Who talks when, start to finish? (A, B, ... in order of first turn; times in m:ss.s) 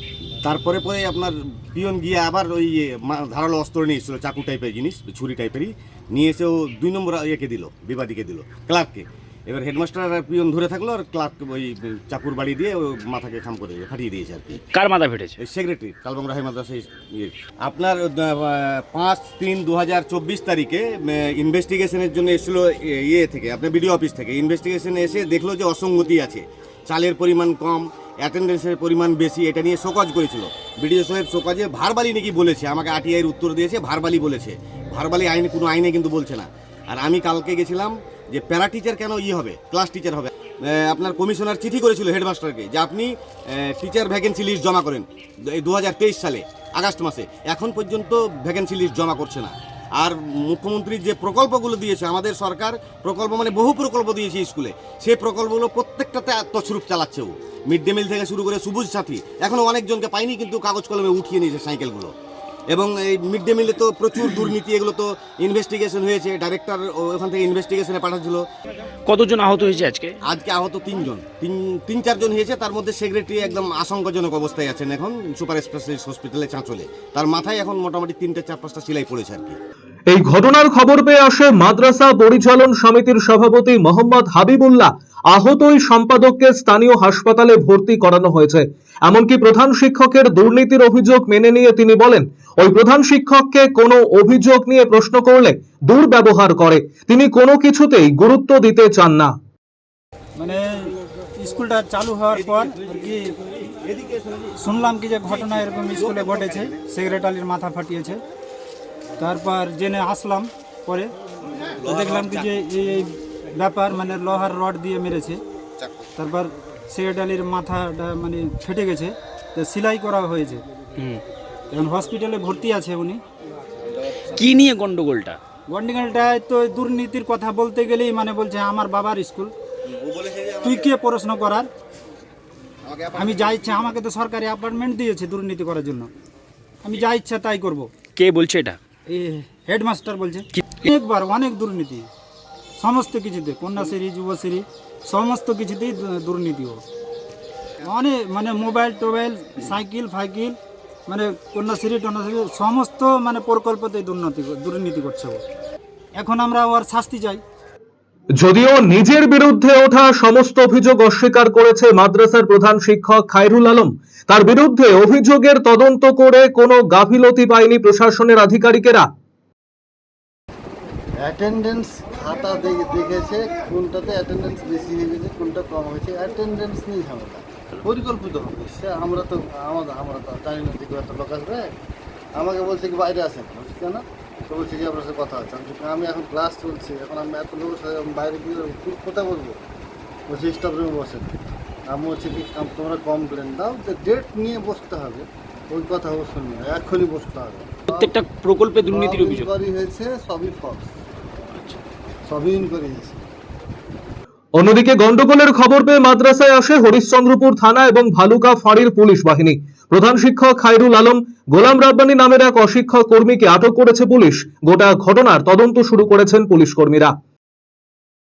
0:00.4-0:14.6 A
0:14.7-0:15.4 B
0:15.4-1:02.1 A
1:02.7-1:08.4 A
1:09.1-1:10.2 B
1:10.3-1:19.6 A
1:20.1-1:39.3 C
1:40.4-1:43.4 D
1:43.9-1:44.2 A
1:44.6-1:48.2 D
1:46.0-1:46.7 A
1:49.2-1:51.1 D
1:51.8-1:52.6 A
1:51.8-1:55.4 D
1:55.8-1:56.1 A
1:56.2-2:00.6 D
2:01.0-2:01.2 B
2:01.7-2:03.2 D
2:04.3-2:05.4 B
2:05.7-2:09.5 D
2:09.9-2:10.9 A
2:10.6-2:11.7 D
2:12.8-2:14.0 A
2:13.2-2:16.1 D
2:16.8-2:17.9 D
2:18.2-2:18.8 B
2:19.1-2:22.1 D
2:20.5-2:20.9 B
2:22.8-2:26.8 D
2:27.8-2:35.4 D
2:36.2-2:37.4 D
2:38.4-2:49.1 C
2:51.2-3:01.7 E
3:02.4-3:09.6 E
3:10.3-3:11.3 E
3:11.9-3:18.2 E
3:17.9-3:19.5 B
3:18.9-3:20.9 E
3:22.3-3:23.2 E
3:24.6-3:37.1 C